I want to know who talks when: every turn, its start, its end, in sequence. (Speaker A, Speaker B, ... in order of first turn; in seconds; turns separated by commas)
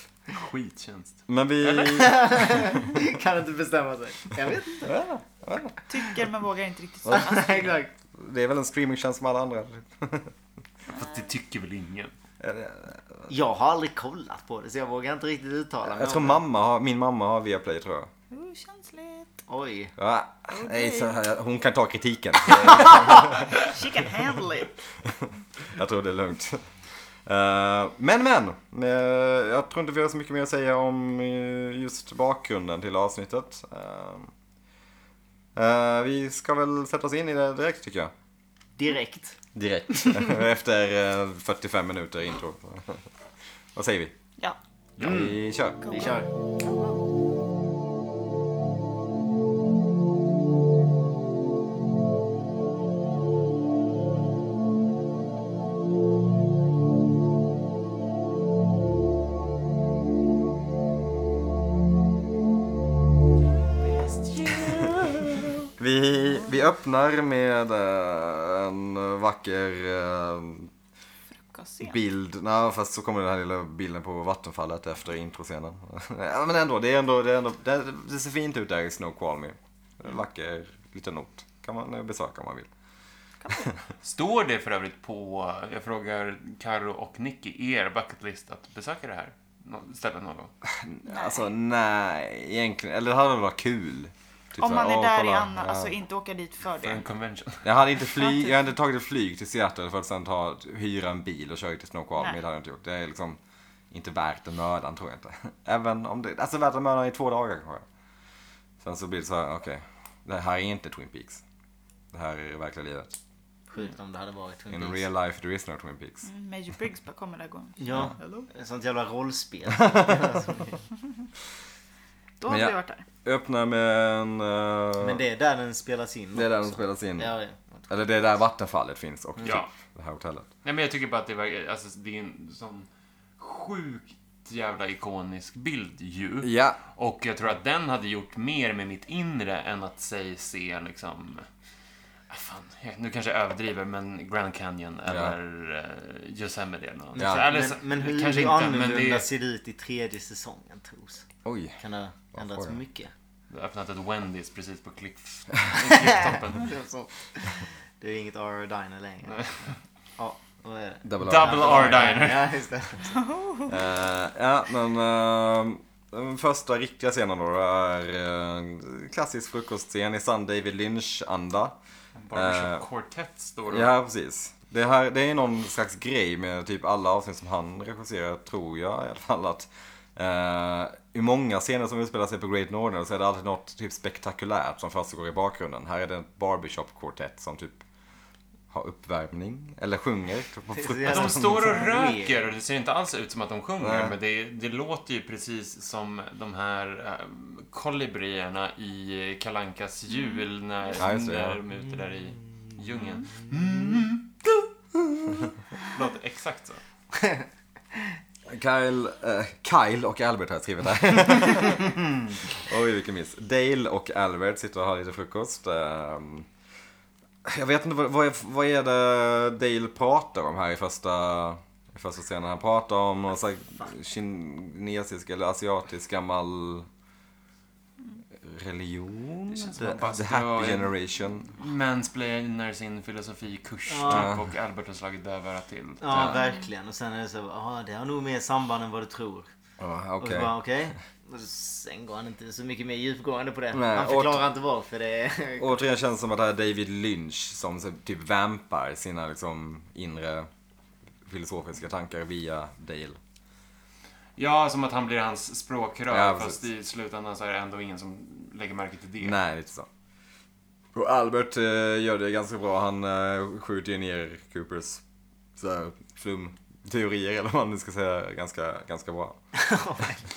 Speaker A: 0.3-2.7, Speaker B: 1.3-2.2, Speaker C: 1.9-5.0, Speaker B: 4.8-5.8, Speaker D: 5.9-7.8, Speaker C: 7.1-7.9, Speaker B: 8.2-10.3, Speaker A: 10.9-12.1, Speaker B: 12.4-13.3, Speaker C: 13.3-16.4, Speaker B: 15.8-18.1, Speaker D: 18.3-19.4, Speaker C: 19.5-19.9, Speaker B: 20.0-23.6, Speaker D: 20.5-21.2, Speaker D: 22.8-24.7, Speaker B: 25.1-26.6, Speaker B: 27.3-34.3, Speaker B: 35.5-38.1, Speaker C: 38.8-39.4, Speaker B: 39.5-43.0, Speaker B: 43.8-44.1, Speaker A: 45.0-45.3, Speaker C: 45.0-46.3, Speaker B: 45.0-46.0, Speaker D: 45.8-47.0, Speaker A: 63.8-65.6, Speaker B: 65.8-70.7, Speaker D: 71.4-72.0, Speaker B: 71.8-82.7, Speaker D: 83.4-83.7, Speaker A: 84.0-90.5, Speaker B: 90.7-96.0, Speaker D: 91.1-91.5, Speaker D: 94.6-97.0, Speaker A: 96.8-97.7, Speaker B: 97.6-103.4, Speaker D: 98.2-98.5, Speaker B: 103.9-107.8, Speaker B: 108.8-111.4, Speaker B: 112.1-113.1, Speaker C: 113.7-115.0, Speaker B: 114.7-116.3, Speaker D: 116.2-118.5, Speaker C: 117.8-120.8, Speaker B: 117.9-118.2, Speaker B: 119.9-120.3, Speaker D: 122.4-123.1, Speaker B: 122.5-125.2, Speaker C: 125.0-127.9, Speaker B: 126.3-127.3, Speaker B: 127.9-130.5, Speaker A: 129.4-129.7, Speaker A: 130.6-132.9, Speaker A: 133.4-141.5, Speaker B: 136.4-136.8, Speaker A: 142.3-149.3, Speaker B: 145.1-145.4, Speaker B: 147.2-147.5, Speaker C: 147.2-151.2, Speaker B: 151.4-151.8, Speaker C: 151.8-153.1, Speaker B: 152.3-152.8, Speaker A: 153.5-156.8, Speaker C: 155.9-159.5, Speaker A: 159.3-159.7, Speaker C: 160.2-163.2, Speaker B: 161.0-162.2, Speaker A: 161.2-162.6, Speaker D: 163.1-163.8, Speaker B: 163.7-171.8, Speaker A: 172.2-173.9, Speaker B: 172.3-172.9, Speaker B: 173.7-187.8, Speaker B: 188.7-191.8, Speaker C: 190.7-192.4, Speaker A: 191.1-204.6, Speaker B: 193.8-194.2, Speaker D: 200.1-200.4, Speaker B: 201.0-201.6, Speaker A: 205.3-206.8, Speaker B: 208.5-216.5, Speaker B: 217.4-226.9, Speaker B: 228.4-231.6, Speaker A: 229.5-230.9, Speaker A: 231.5-236.4, Speaker C: 233.9-234.3, Speaker B: 234.1-234.4, Speaker C: 236.0-239.5, Speaker D: 236.3-236.7, Speaker B: 239.8-240.5, Speaker C: 240.2-245.8, Speaker B: 243.7-244.5, Speaker B: 245.6-250.5, Speaker B: 251.3-253.2, Speaker A: 254.4-259.4, Speaker B: 256.1-256.6, Speaker B: 259.2-259.9, Speaker B: 260.9-265.0, Speaker B: 265.6-269.4, Speaker C: 269.6-270.2